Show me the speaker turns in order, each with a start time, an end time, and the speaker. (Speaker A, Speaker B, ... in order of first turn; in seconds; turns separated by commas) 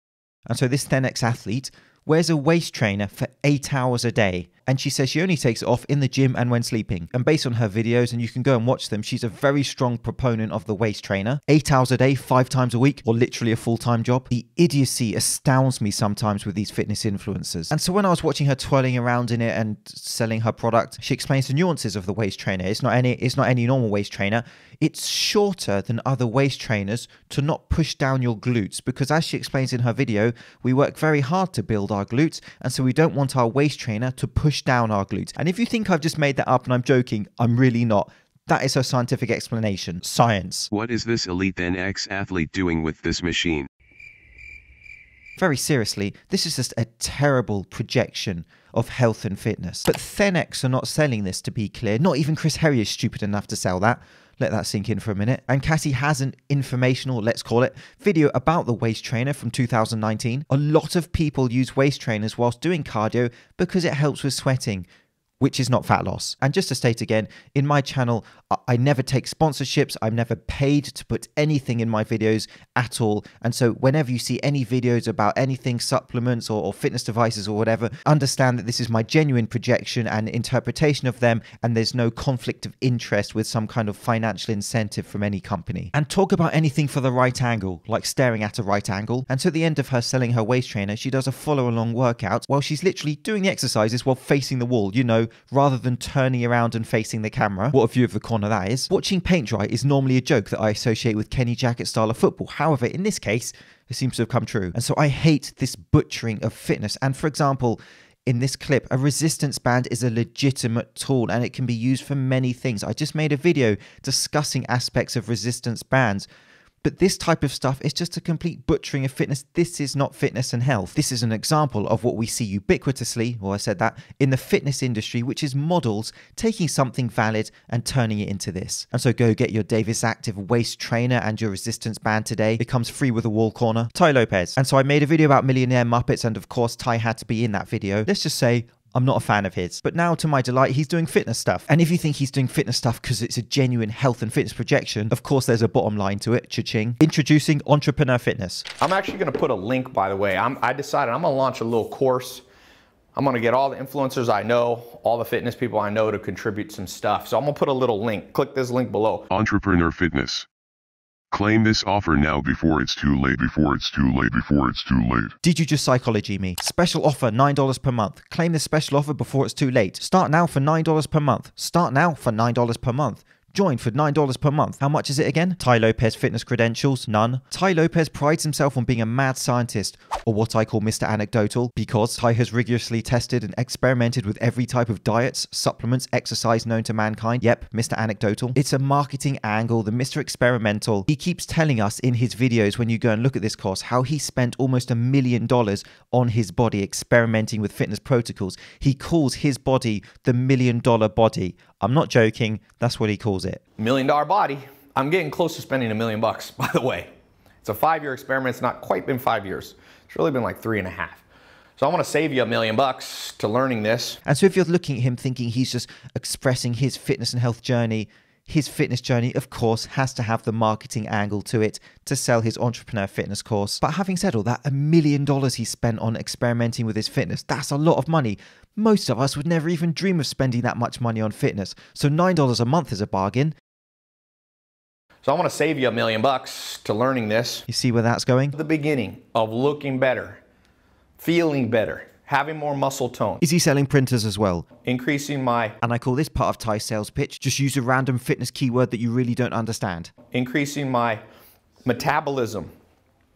Speaker A: 0.5-40.7, Speaker B: 40.7-43.7, Speaker A: 45.4-64.9, Speaker A: 65.4-116.3, Speaker A: 116.8-148.7, Speaker C: 148.8-152.4, Speaker C: 153.2-159.3, Speaker B: 159.3-160.5, Speaker B: 161.3-165.3, Speaker A: 165.4-203.6, Speaker C: 203.8-207.1, Speaker C: 207.6-211.2, Speaker C: 211.8-214.2, Speaker A: 214.2-233.5, Speaker C: 235.2-237.7, Speaker A: 237.7-238.6, Speaker C: 238.5-240.4, Speaker C: 241.2-243.4, Speaker A: 243.4-244.7, Speaker C: 244.8-245.8, Speaker A: 245.8-250.1, Speaker C: 250.3-251.2, Speaker C: 251.8-252.7